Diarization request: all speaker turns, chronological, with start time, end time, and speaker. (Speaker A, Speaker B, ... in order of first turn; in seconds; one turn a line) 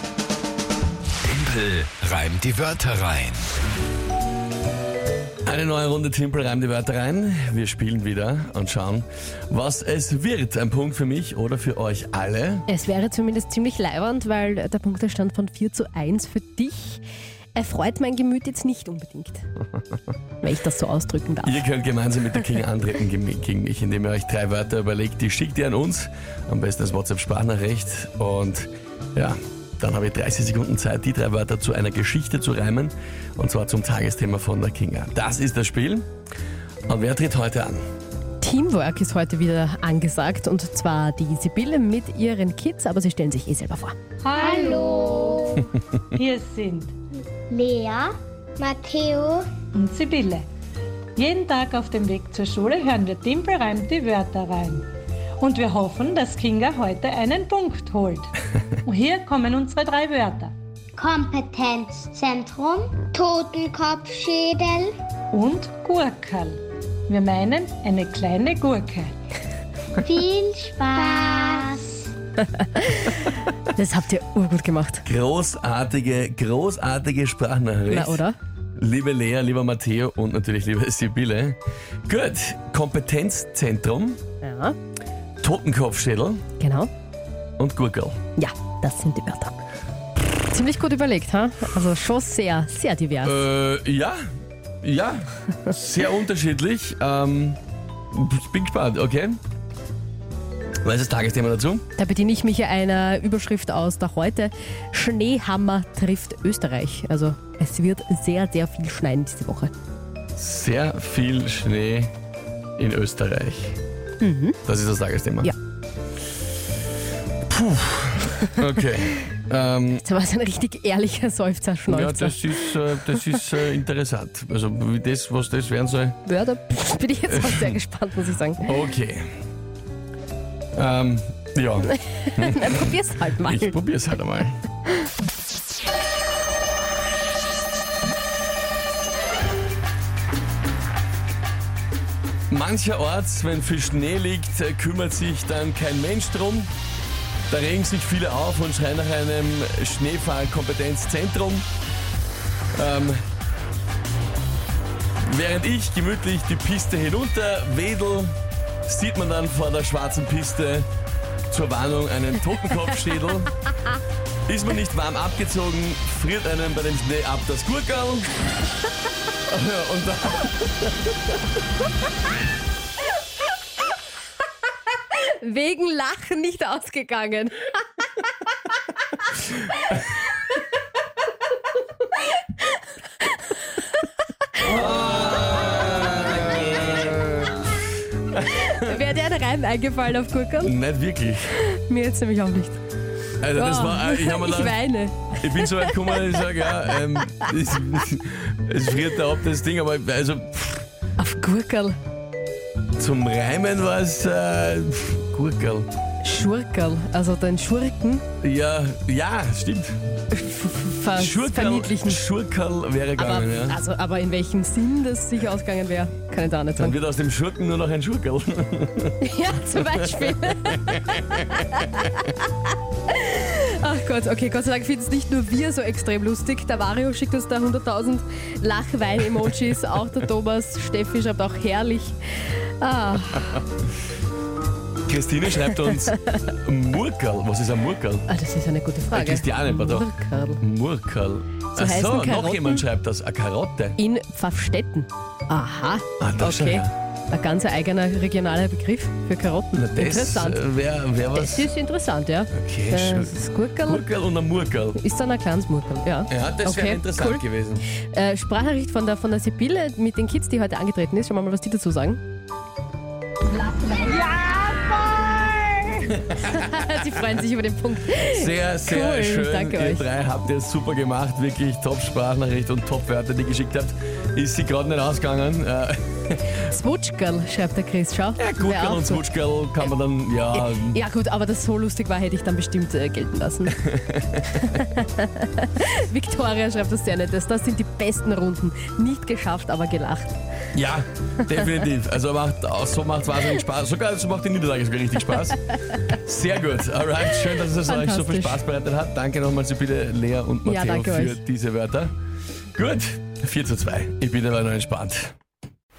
Speaker A: 1.4-3.5
Speaker B: 5.5-12.7
Speaker C: 12.7-17.0
Speaker C: 17.6-19.4
Speaker C: 20.4-21.7
Speaker B: 21.4-36.1
Speaker B: 36.9-37.8
Speaker C: 38.4-44.0
Speaker D: 44.2-45.5
Speaker E: 44.4-45.7
Speaker D: 46.1-46.9
Speaker E: 47.5-49.5
Speaker D: 49.7-50.5
Speaker D: 51.2-54.9
Speaker D: 55.4-58.3
Speaker D: 58.9-60.5
Speaker E: 61.0-65.0
Speaker D: 65.3-69.2
Speaker E: 70.0-72.1
Speaker C: 72.6-75.0
Speaker B: 75.0-78.2
Speaker C: 77.9-78.4
Speaker B: 78.8-84.2
Speaker C: 84.4-84.8
Speaker B: 85.4-86.4
Speaker C: 86.6-86.9
Speaker B: 87.6-88.2
Speaker C: 88.4-89.6
Speaker C: 90.5-93.4
Speaker B: 93.2-94.2
Speaker B: 94.8-97.6
Speaker B: 98.1-99.4
Speaker B: 100.8-101.8
Speaker C: 102.0-109.7
Speaker B: 110.4-112.1
Speaker B: 112.8-113.8
Speaker C: 114.2-114.6
Speaker B: 114.7-115.5
Speaker B: 117.5-120.0
Speaker C: 120.0-122.7
Speaker B: 121.9-126.2
Speaker C: 126.2-128.7
Speaker B: 127.3-127.7
Speaker B: 128.6-129.3
Speaker B: 130.8-134.6
Speaker C: 132.3-133.8
Speaker B: 142.5-146.7
Speaker B: 147.5-151.7
Speaker B: 152.8-153.2
Speaker B: 155.2-160.9
Speaker B: 161.5-163.6
Speaker B: 164.5-168.3
Speaker B: 169.5-171.1
Speaker C: 175.1-177.8
Speaker C: 188.5-190.8
Speaker B: 190.6-191.6
Speaker C: 191.5-192.8
Speaker B: 193.4-194.8
Speaker C: 193.5-196.4
Speaker B: 195.3-200.9
Speaker C: 201.2-202.0
Speaker B: 203.0-205.9
Speaker C: 206.2-208.2
Speaker B: 208.4-210.0
Speaker C: 210.3-212.2
Speaker B: 211.1-213.8
Speaker C: 213.2-217.0
Speaker B: 216.8-221.2
Speaker C: 219.2-222.4
Speaker C: 223.1-233.7
Speaker B: 235.1-238.3
Speaker C: 238.3-240.6
Speaker B: 239.1-240.1
Speaker B: 240.6-244.0
Speaker C: 241.7-242.8
Speaker C: 244.0-250.6
Speaker B: 246.2-246.9
Speaker B: 249.7-251.7
Speaker C: 251.3-254.1
Speaker B: 252.5-255.0
Speaker C: 255.0-257.4
Speaker B: 256.3-257.9
Speaker C: 258.1-262.2
Speaker B: 264.3-265.4
Speaker C: 266.3-270.1
Speaker B: 268.1-276.6
Speaker C: 276.6-279.2
Speaker B: 278.4-281.0
Speaker C: 280.5-283.8
Speaker B: 283.8-284.7
Speaker C: 284.6-290.4
Speaker B: 290.7-302.1
Speaker C: 297.8-298.6
Speaker C: 300.6-301.4
Speaker B: 302.8-305.3